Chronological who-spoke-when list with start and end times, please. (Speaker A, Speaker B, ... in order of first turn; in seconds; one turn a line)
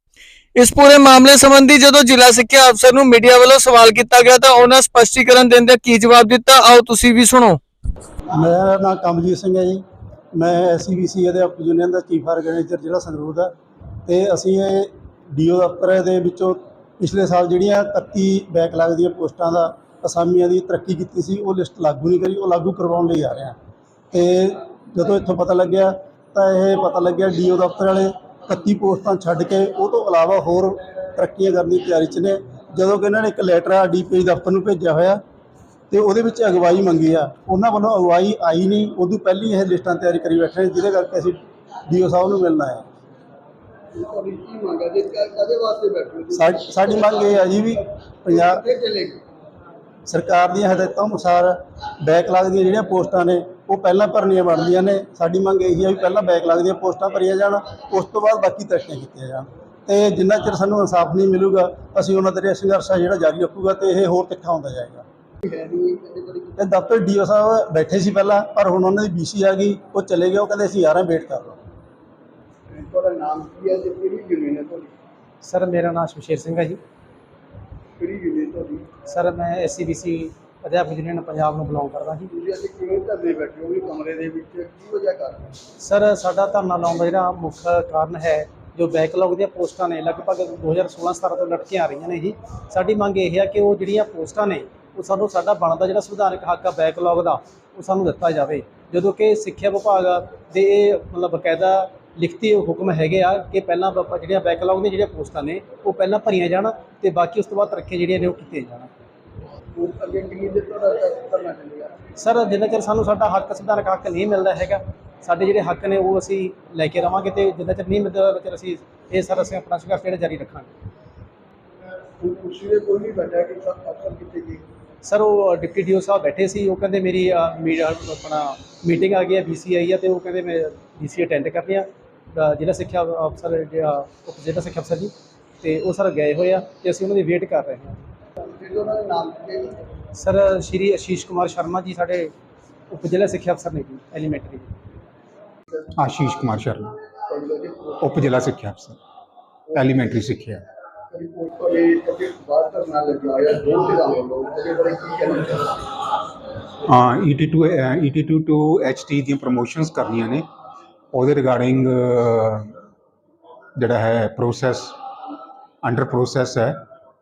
Speaker A: 0.6-7.6
Speaker B: 8.3-9.8
Speaker B: 10.3-13.5
Speaker B: 14.1-23.6
Speaker B: 24.1-35.2
Speaker B: 35.9-42.8
Speaker C: 43.9-47.5
Speaker B: 46.3-48.6
Speaker C: 48.3-49.2
Speaker B: 50.1-65.0
Speaker C: 65.4-66.5
Speaker B: 66.6-71.6
Speaker C: 72.7-74.9
Speaker D: 75.4-76.8
Speaker C: 78.0-78.9
Speaker D: 79.0-82.3
Speaker C: 82.3-85.5
Speaker D: 85.8-108.9
Speaker C: 109.8-111.9
Speaker D: 112.2-120.7
Speaker C: 122.2-124.6
Speaker D: 125.0-138.0
Speaker C: 138.4-139.8
Speaker D: 140.2-142.3
Speaker D: 142.9-144.7
Speaker E: 145.9-147.0
Speaker C: 147.3-148.2
Speaker E: 148.0-149.0
Speaker E: 149.7-150.6
Speaker C: 151.1-155.8
Speaker E: 156.9-160.5
Speaker E: 161.1-162.8
Speaker E: 163.8-165.0
Speaker E: 165.8-166.8